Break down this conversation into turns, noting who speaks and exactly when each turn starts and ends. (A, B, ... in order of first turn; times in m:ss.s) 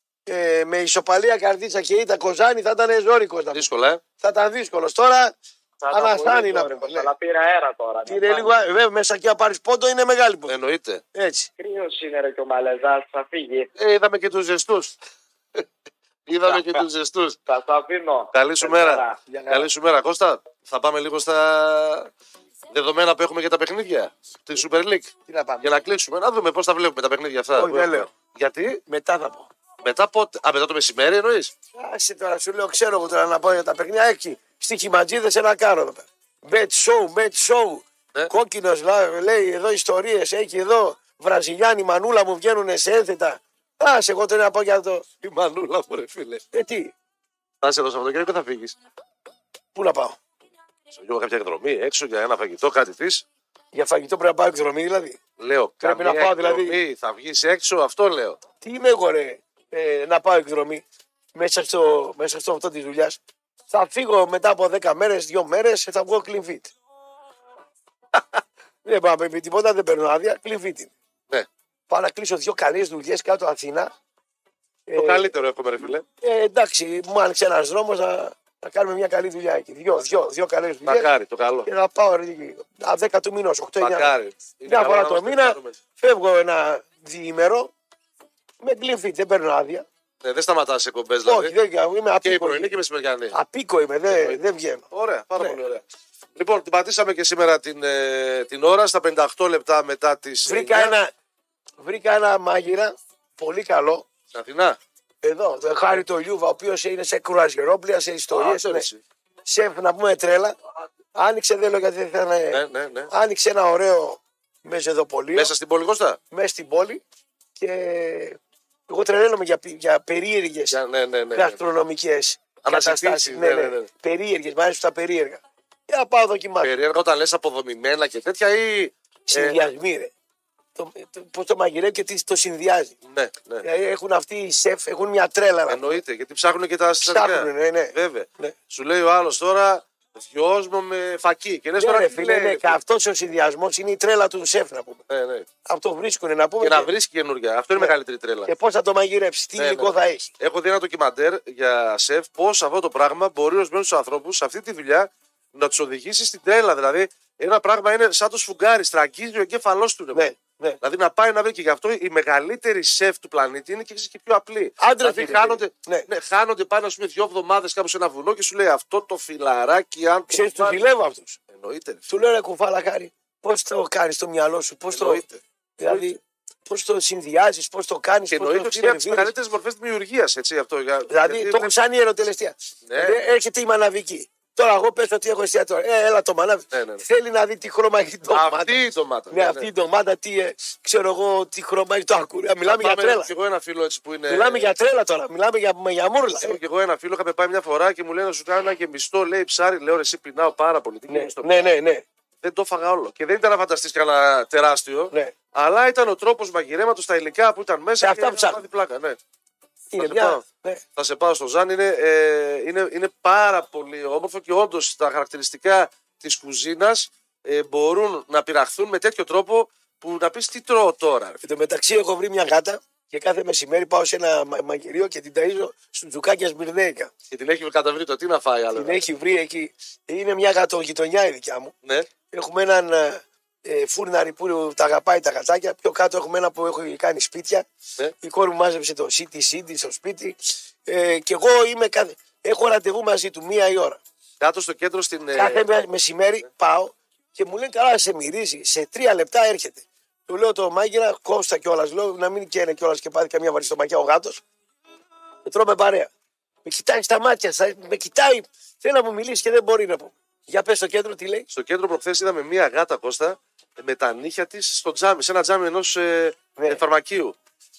0:00.3-0:03.6 A
0:03.5-0:04.0 B
0:04.2-0:05.3 A
0:05.8-0:08.6 C
0:05.9-0:07.1 A
0:08.0-0:10.5 A
0:10.5-0:11.0 B
0:11.1-0:11.5 A
0:11.6-0:13.7 C
0:13.8-0:14.9 B
0:16.3-0:17.4 B
0:16.4-0:16.8 C
0:17.4-0:19.2 C
0:18.3-0:22.1 B
0:19.3-0:19.7 A
0:22.7-0:28.8 B
0:25.3-0:25.6 A
0:27.5-0:28.1 A
0:28.9-0:29.5 A
0:29.8-0:31.5 B
0:31.7-0:45.0 A
0:45.2-0:46.4 B
0:46.5-0:46.9 A
0:47.6-0:48.8 B
0:49.7-0:50.2 A
0:50.9-0:53.2 B
0:53.7-0:55.2 A
0:55.4-0:58.4 B
0:55.8-0:56.8 A
0:58.6-1:00.8 A
1:01.3-1:03.2 A
1:03.7-1:06.7 A
1:08.8-1:10.9 A
1:11.9-1:13.9 A
1:14.9-1:15.3 A
1:14.9-1:16.0 B
1:16.2-1:21.1 A
1:20.8-1:21.7 B
1:21.6-1:24.1 A
1:23.8-1:25.8 B
1:24.6-1:27.7 A
1:28.6-1:29.8 A
1:30.2-1:31.5 B
1:31.2-1:32.7 A
1:32.2-1:33.3 B
1:33.3-1:34.8 A
1:34.1-1:34.4 B
1:34.9-1:35.8 B
1:36.4-1:41.0 B
1:40.4-1:41.1 A
1:41.8-1:44.0 A
1:44.3-1:44.8 B
1:45.2-1:48.9 A
1:48.3-1:49.0 B
1:49.4-1:50.6 A
1:51.1-1:55.5 A
1:52.5-1:53.1 B
1:55.4-1:56.2 B
1:56.3-1:57.0 A
1:57.6-2:00.8 A
2:00.7-2:01.6 B
2:01.3-2:06.7 A
2:02.6-2:03.9 B
2:06.6-2:09.6 B
2:09.3-2:10.1 A
2:10.7-2:12.9 A
2:13.1-2:13.6 B
2:13.6-2:16.0 A
2:15.7-2:22.8 B
2:17.0-2:18.5 A
2:21.8-2:25.0 A
2:25.1-2:25.5 B
2:25.6-2:26.9 A
2:26.6-2:28.5 B
2:28.4-2:30.3 A
2:29.6-2:50.8 B
2:40.1-2:40.8 A
2:44.8-2:46.1 A
2:50.3-2:51.4 A
2:51.5-2:52.1 B
2:52.1-2:55.2 A
2:54.9-2:56.1 B
2:55.8-2:59.3 A
2:58.3-3:01.7 B
3:01.1-3:08.8 A
3:02.8-3:03.2 B
3:06.7-3:07.0 B
3:08.3-3:09.7 B
3:09.3-3:13.3 A
3:12.6-3:14.7 B
3:14.3-3:16.6 A
3:16.4-3:21.7 B
3:21.1-3:22.0 A
3:22.4-3:29.2 B
3:28.0-3:28.6 A
3:29.9-3:30.8 A
3:30.0-3:30.4 B
3:31.0-3:41.4 B
3:41.4-3:47.1 A
3:47.3-3:49.0 B
3:48.7-3:51.7 A
3:52.3-3:57.6 A
3:58.2-4:04.0 A
4:04.4-4:05.6 B
4:05.3-4:14.4 A
4:15.4-4:16.1 A
4:16.6-4:21.5 A
4:21.5-4:27.3 B